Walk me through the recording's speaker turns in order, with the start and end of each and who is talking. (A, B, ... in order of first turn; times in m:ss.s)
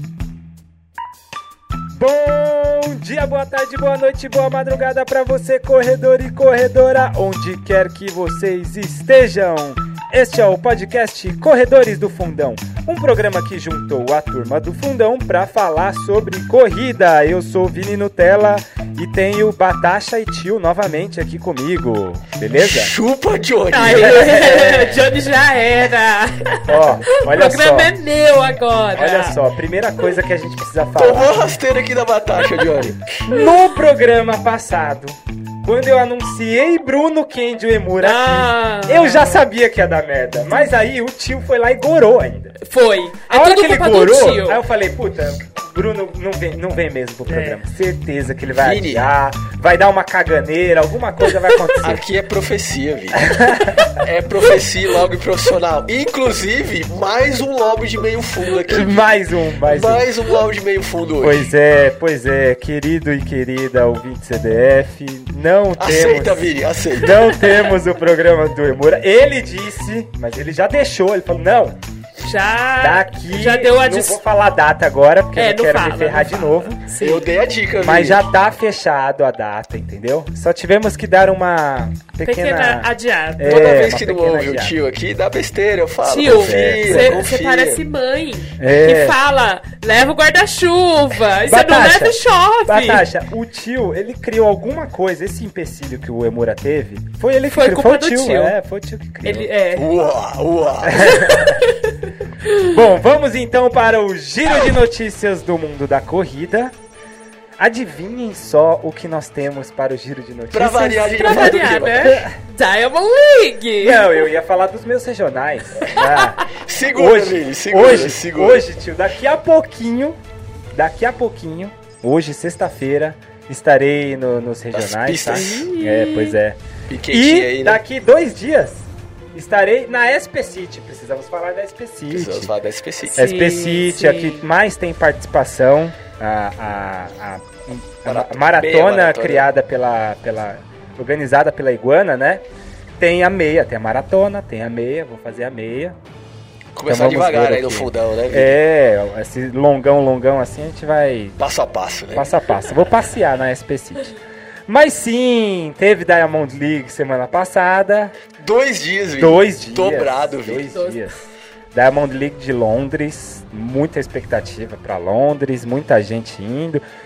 0:01.9-0:22.9 A
0:22.6-0:25.0 B
0:23.7-0:29.4 C
0:24.0-0:24.7 A
0:26.6-0:27.9 A
0:28.9-0:31.5 A
0:31.0-0:33.2 B
0:33.2-0:42.6 A
0:38.0-0:39.4 C
0:42.6-0:44.6 C
0:43.3-0:52.0 A
0:47.3-0:47.6 C
0:48.5-0:49.1 B
0:51.5-0:51.8 C
0:51.8-0:59.1 B
0:53.2-0:53.9 A
0:58.6-1:00.1 A
0:59.6-1:01.5 B
1:01.2-1:11.8 A
1:05.8-1:07.2 B
1:12.2-1:14.2 C
1:12.8-1:16.8 A
1:15.3-1:17.3 C
1:17.0-1:18.3 B
1:17.8-1:24.8 A
1:22.2-1:23.8 C
1:23.4-1:27.8 B
1:26.0-1:33.1 C
1:26.2-1:27.2 A
1:28.6-1:29.2 A
1:31.5-1:39.5 A
1:37.5-1:38.6 C
1:39.2-1:39.9 C
1:39.7-1:41.2 B
1:40.8-1:41.6 A
1:41.1-1:42.7 C
1:42.6-1:46.7 A
1:47.6-1:52.3 A
1:50.5-1:52.2 B
1:51.2-1:54.3 C
1:53.8-2:00.2 A
1:55.9-1:56.3 C
1:56.5-1:58.7 B
2:00.7-2:06.6 A
2:04.7-2:05.6 B
2:05.3-2:06.4 C
2:06.9-2:07.8 B
2:07.1-2:12.5 A
2:12.1-2:13.2 B
2:13.0-2:14.4 C
2:13.2-2:22.4 A
2:18.0-2:19.5 B
2:23.0-2:26.0 A
2:26.7-2:28.6 B
2:26.9-2:31.4 A
2:31.4-2:32.3 B
2:32.1-2:34.1 A
2:34.7-2:38.1 A
2:38.4-2:40.7 B
2:39.2-2:41.2 A
2:40.7-2:41.2 C
2:41.7-2:46.8 A